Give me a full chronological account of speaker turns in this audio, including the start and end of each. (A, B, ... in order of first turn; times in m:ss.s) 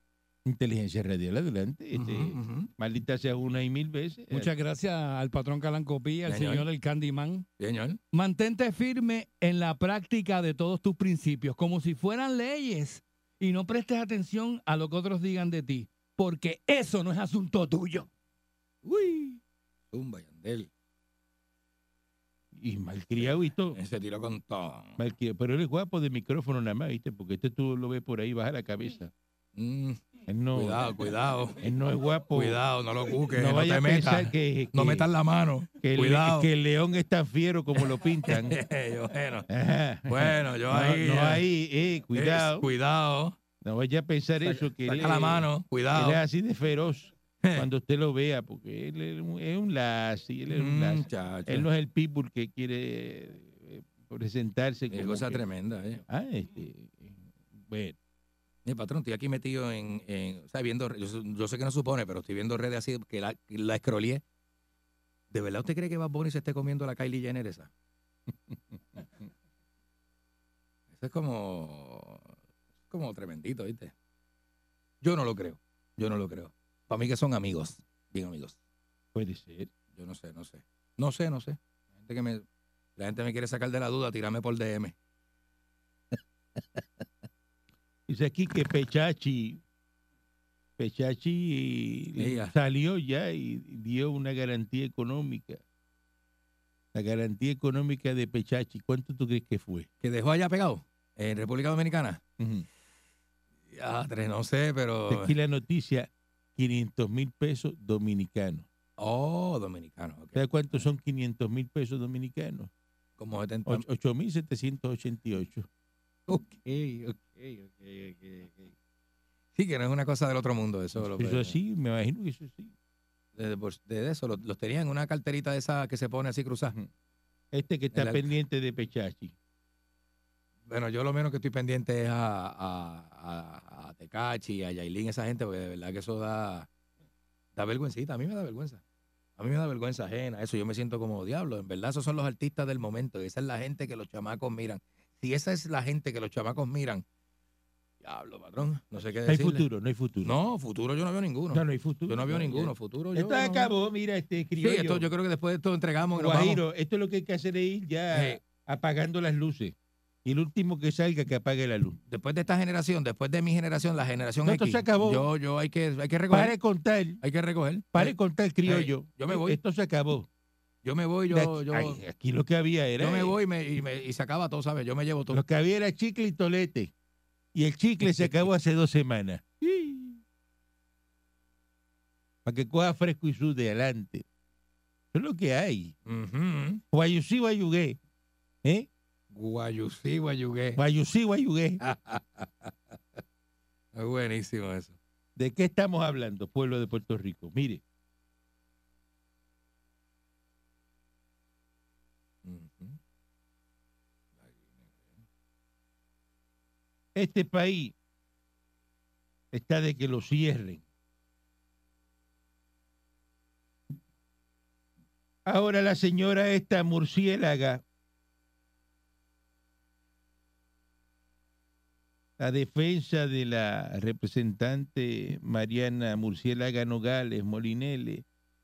0:00.4-0:04.5 A
0:01.9-0:02.7 B
0:04.3-0:07.5 C
0:06.3-0:06.6 B
0:07.6-0:08.0 B
0:08.1-0:18.1 C
0:18.8-0:19.4 B
0:19.9-0:20.7 B
0:22.5-0:23.8 A
0:23.7-0:25.0 B
0:25.0-0:29.1 A
0:29.6-0:30.0 B
0:30.3-0:30.9 A
0:30.5-0:31.6 B
0:31.6-0:32.6 A
0:32.3-0:36.5 B
0:33.3-0:35.1 A
0:35.8-0:38.6 A
0:38.3-0:39.5 B
0:39.5-0:42.7 A
0:40.1-0:41.4 B
0:42.1-0:43.4 B
0:43.6-0:55.4 A
0:44.4-0:46.2 B
0:50.5-0:51.7 B
0:54.9-0:56.0 B
0:56.1-0:58.0 A
0:58.6-1:04.2 B
1:05.3-1:07.7 B
1:10.9-1:12.3 B
1:12.9-1:13.9 B
1:15.0-1:18.6 B
1:19.1-1:19.7 A
1:19.9-1:22.4 B
1:23.0-1:25.0 B
1:28.1-1:29.6 A
1:30.8-1:35.6 A
1:32.2-1:32.5 B
1:36.9-1:39.9 A
1:40.0-1:42.2 B
1:42.4-1:42.7 A
1:43.7-1:45.3 B
1:45.1-1:48.7 A
1:49.0-1:50.8 B
1:50.4-1:52.7 A
1:53.2-1:53.8 B
1:53.7-1:55.7 A
1:56.3-1:58.7 B
1:59.6-2:01.6 B
2:01.0-2:02.7 A
2:03.4-2:06.8 B
2:07.5-2:09.4 A
2:07.9-2:08.3 B
2:10.7-2:16.7 B
2:17.6-2:18.8 B
2:19.4-2:27.0 B
2:28.0-2:29.6 B
2:29.2-2:30.3 A
2:30.2-2:33.7 B
2:31.5-2:35.1 A
2:34.6-2:36.6 B
2:36.2-2:42.0 A
2:38.1-2:38.4 B
2:42.1-2:46.6 B
2:44.4-2:45.3 A
2:46.3-2:47.2 A
2:47.2-2:49.6 B
2:47.9-2:50.3 A
2:50.8-2:52.0 B
2:51.3-2:53.4 A
2:53.0-2:55.4 B
2:55.3-2:56.9 A
2:57.5-3:00.2 A
3:02.4-3:04.2 A
3:05.1-3:06.0 A
3:06.1-3:06.8 B
3:06.9-3:08.0 A
3:09.3-3:10.8 B
3:10.8-3:11.8 A
3:11.8-3:13.2 B
3:14.0-3:15.0 B
3:15.4-3:17.8 A
3:22.4-3:23.0 B
3:24.4-3:25.2 B
3:27.2-3:27.9 A
3:29.5-3:30.8 A
3:35.4-3:37.8 A
3:42.4-3:48.2 A